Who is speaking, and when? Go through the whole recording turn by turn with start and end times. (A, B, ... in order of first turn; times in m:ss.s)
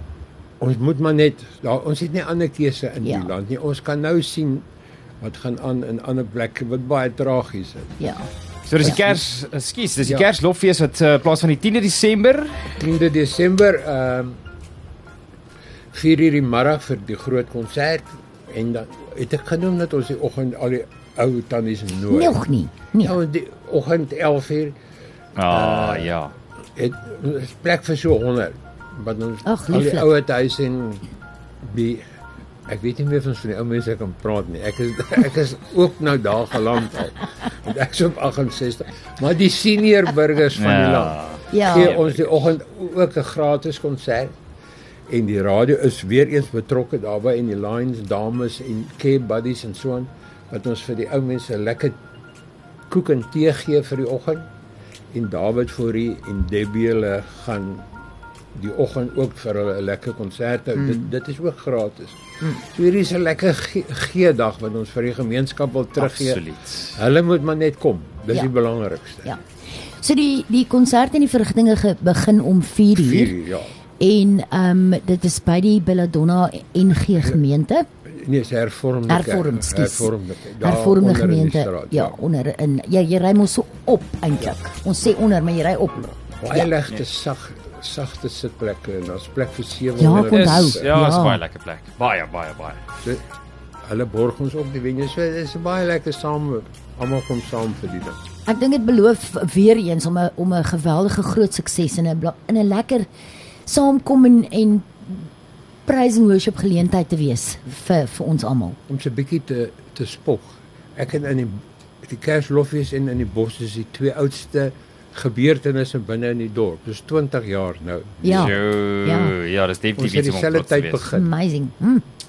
0:00.6-0:04.6 A
0:03.0-0:03.3 B
0:05.2-0:08.0 A
0:08.0-0:08.3 B
0:08.7-0:12.8 C
0:08.8-0:09.1 B
0:12.8-0:14.4 A
0:15.9-0:22.4 A
0:22.1-0:23.2 B
0:23.0-0:24.7 A
0:25.4-0:26.3 C
0:25.4-0:26.1 A
0:26.8-0:31.1 A
0:29.4-0:30.1 B
0:31.6-0:32.0 A
0:32.7-0:44.3 A
0:40.5-0:42.5 C
0:41.5-0:41.9 B
0:45.1-0:52.0 A
0:52.9-0:54.5 A
0:55.1-0:57.8 A
0:58.5-1:09.3 A
1:00.8-1:01.1 B
1:06.0-1:07.0 C
1:09.2-1:13.4 B
1:12.9-1:13.7 A
1:14.0-1:17.8 B
1:18.0-1:22.2 A
1:19.1-1:26.7 B
1:26.4-1:30.9 A
1:30.0-1:31.4 B
1:30.2-1:32.8 C
1:33.8-1:38.2 A
1:38.5-1:43.1 B
1:43.6-1:45.3 B
1:45.8-1:48.8 B
1:48.9-1:58.5 A
1:58.2-1:59.3 B
1:58.2-2:01.0 C
2:00.0-2:01.3 A
2:01.1-2:02.0 B